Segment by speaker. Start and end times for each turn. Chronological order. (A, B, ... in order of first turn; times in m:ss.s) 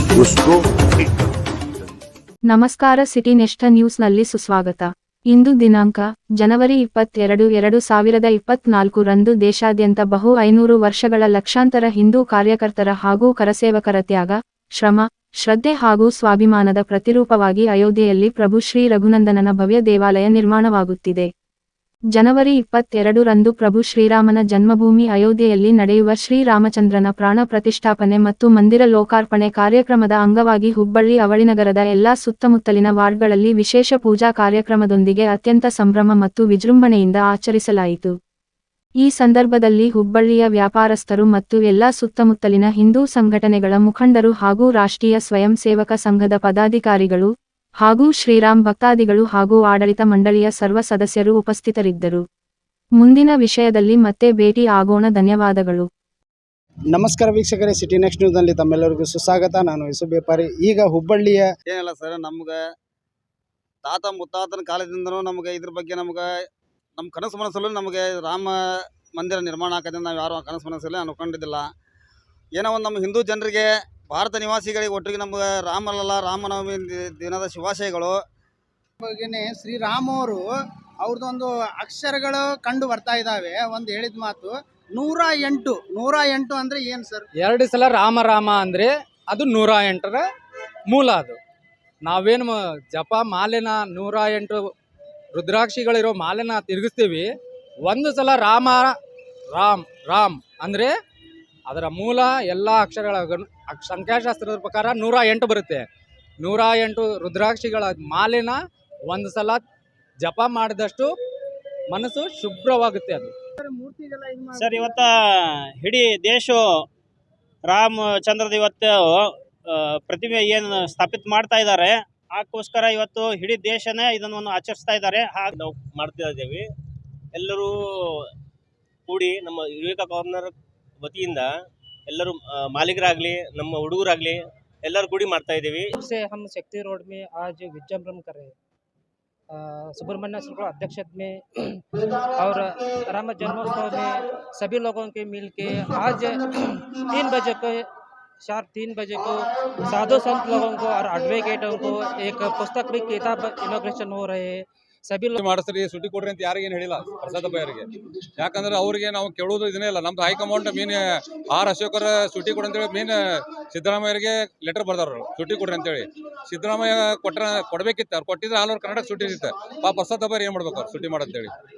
0:02.5-0:21.3 A
0:22.1-0:38.1 A
0:39.0-0:47.3 A
0:47.8-0:52.2 A
0:53.0-0:55.9 A
0:56.9-1:01.5 B
1:01.7-1:02.6 C
1:03.8-1:06.3 C
1:07.0-1:08.6 C
1:09.1-1:11.7 C
1:12.6-1:18.2 C
1:19.0-1:20.4 B
1:21.0-1:27.2 B
1:27.4-1:30.2 D
1:30.9-1:31.4 D
1:32.0-1:34.7 D
1:35.3-1:37.3 D
1:37.8-1:39.0 D
1:39.5-1:40.9 D
1:41.7-1:45.8 D
1:46.4-1:48.6 D
1:49.1-1:49.6 D
1:50.2-1:51.1 D
1:51.9-1:53.3 D
1:53.6-1:55.0 B
1:54.5-1:56.6 E
1:57.7-2:05.5 E
2:05.5-2:06.7 F
2:07.3-2:08.3 F
2:09.1-2:11.5 F
2:12.1-2:16.0 F
2:16.0-2:18.5 G
2:19.5-2:21.4 G
2:22.4-2:26.4 G
2:27.1-2:27.8 G
2:28.4-2:35.3 G
2:35.4-2:37.9 H
2:38.4-2:51.5 H